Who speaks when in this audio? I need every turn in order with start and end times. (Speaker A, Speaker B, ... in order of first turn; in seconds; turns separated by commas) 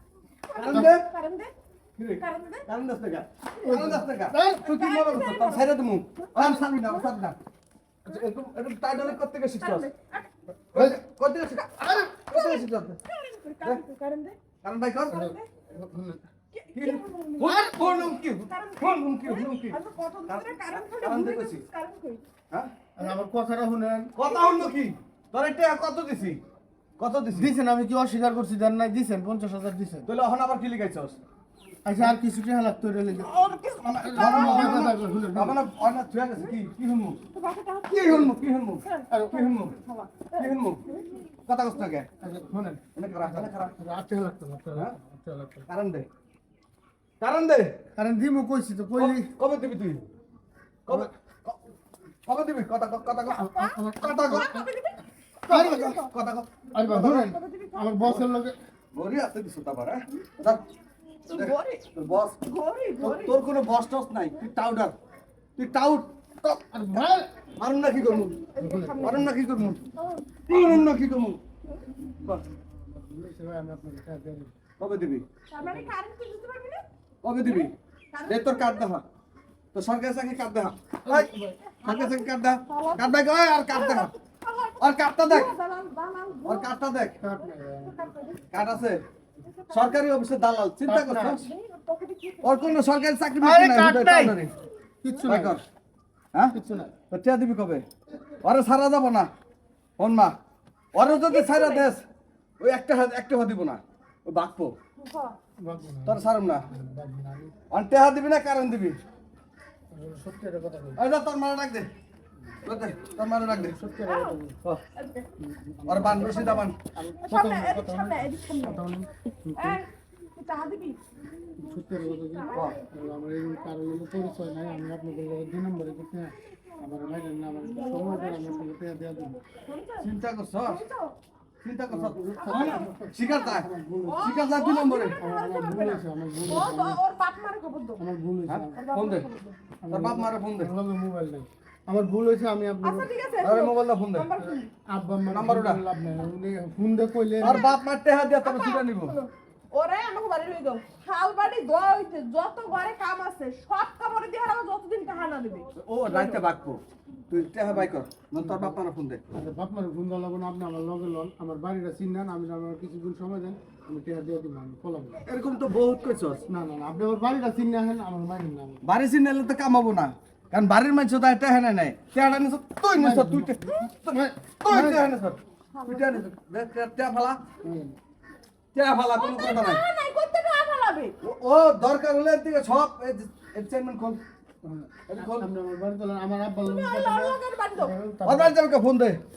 Speaker A: 0.4-1.5, Speaker B: 0.6-1.0, Speaker B: 2.0-7.4, Speaker A: 2.2-2.6, Speaker C: 3.6-4.7, Speaker A: 4.4-7.1, Speaker B: 8.0-9.9, Speaker A: 9.0-10.3, Speaker B: 10.7-13.0, Speaker C: 10.7-11.0, Speaker C: 11.8-12.1, Speaker A: 12.1-14.4, Speaker B: 14.6-15.3, Speaker A: 15.1-15.5, Speaker C: 15.1-16.2, Speaker A: 16.5-22.2, Speaker B: 16.7-21.6, Speaker C: 22.9-24.2, Speaker B: 24.1-26.4, Speaker A: 24.2-24.7, Speaker B: 27.0-27.5, Speaker C: 27.3-30.1, Speaker B: 30.1-31.2, Speaker C: 31.8-33.4, Speaker A: 33.1-34.9, Speaker B: 33.8-37.2, Speaker C: 34.0-35.6, Speaker A: 37.3-38.3, Speaker B: 37.9-39.8, Speaker A: 38.8-41.2, Speaker C: 39.1-39.5, Speaker B: 40.4-40.8, Speaker B: 41.5-42.1, Speaker C: 42.2-45.7, Speaker B: 43.0-43.8, Speaker B: 45.7-46.1, Speaker B: 47.2-47.8, Speaker C: 48.0-49.3, Speaker B: 49.0-50.0, Speaker B: 50.9-51.6, Speaker B: 52.2-53.5, Speaker A: 53.2-56.1, Speaker C: 53.4-54.6, Speaker B: 54.0-54.5, Speaker B: 55.5-56.5, Speaker C: 55.5-55.9, Speaker C: 56.7-58.5, Speaker A: 56.9-58.1, Speaker B: 58.9-60.6, Speaker A: 60.1-60.6, Speaker A: 61.2-61.9, Speaker B: 61.3-62.4, Speaker A: 62.4-63.4, Speaker B: 63.0-64.9, Speaker B: 65.6-67.0, Speaker C: 66.7-67.3, Speaker B: 67.6-68.4, Speaker A: 68.1-69.3, Speaker C: 68.6-69.7, Speaker B: 69.0-69.8, Speaker A: 70.0-70.2, Speaker B: 70.5-71.4, Speaker C: 72.7-74.5, Speaker B: 74.8-75.2, Speaker A: 75.5-76.8, Speaker C: 75.6-75.9, Speaker B: 77.2-77.7, Speaker A: 77.4-78.9, Speaker B: 78.2-79.0, Speaker B: 79.7-84.1, Speaker C: 81.0-81.5, Speaker A: 81.6-86.7, Speaker B: 84.8-85.5, Speaker B: 86.4-87.2, Speaker C: 87.2-88.1, Speaker A: 87.4-88.8, Speaker B: 88.5-89.0, Speaker A: 89.4-90.1, Speaker B: 89.7-91.5, Speaker C: 90.8-91.4, Speaker A: 91.4-92.8, Speaker B: 92.4-94.5, Speaker C: 93.4-94.4, Speaker C: 95.0-95.6, Speaker B: 95.3-95.6, Speaker C: 96.5-96.9, Speaker B: 97.1-97.8, Speaker B: 98.4-99.3, Speaker B: 100.0-100.3, Speaker B: 100.9-102.0, Speaker A: 101.3-101.9, Speaker B: 102.6-104.7, Speaker A: 105.0-105.3, Speaker C: 105.6-107.5, Speaker B: 106.0-106.6, Speaker B: 107.7-109.0, Speaker C: 109.9-111.0, Speaker B: 111.0-111.9, Speaker B: 112.6-113.8, Speaker C: 113.5-114.6, Speaker A: 114.0-114.4, Speaker A: 115.0-115.3, Speaker C: 115.4-119.8, Speaker B: 115.8-116.8, Speaker A: 116.1-116.7, Speaker A: 117.2-118.8, Speaker A: 119.6-123.0, Speaker C: 121.6-129.4, Speaker A: 124.3-124.6, Speaker A: 126.5-127.1, Speaker A: 127.6-128.7, Speaker A: 129.4-130.1, Speaker B: 130.0-130.8, Speaker A: 130.6-131.1, Speaker B: 131.6-133.7, Speaker C: 131.9-134.4, Speaker A: 132.3-138.0, Speaker B: 134.2-135.2, Speaker C: 135.2-137.0, Speaker C: 138.0-138.8, Speaker B: 138.5-139.3, Speaker A: 138.7-139.6, Speaker C: 139.8-143.1, Speaker B: 139.9-140.7, Speaker A: 142.8-144.7, Speaker B: 143.4-144.3, Speaker C: 144.4-147.7, Speaker B: 145.3-145.8, Speaker B: 147.4-149.1, Speaker A: 147.5-147.7, Speaker A: 148.4-156.4, Speaker B: 155.7-159.2, Speaker C: 158.4-158.8, Speaker C: 159.3-165.2, Speaker B: 165.2-166.4, Speaker C: 166.4-168.8, Speaker B: 168.8-177.4, Speaker C: 172.9-175.1, Speaker A: 175.7-176.2, Speaker C: 177.6-177.9, Speaker B: 178.7-179.8, Speaker A: 179.1-181.2, Speaker B: 181.2-184.2, Speaker C: 184.6-188.6, Speaker B: 185.1-185.5, Speaker A: 186.6-187.9, Speaker B: 188.2-189.2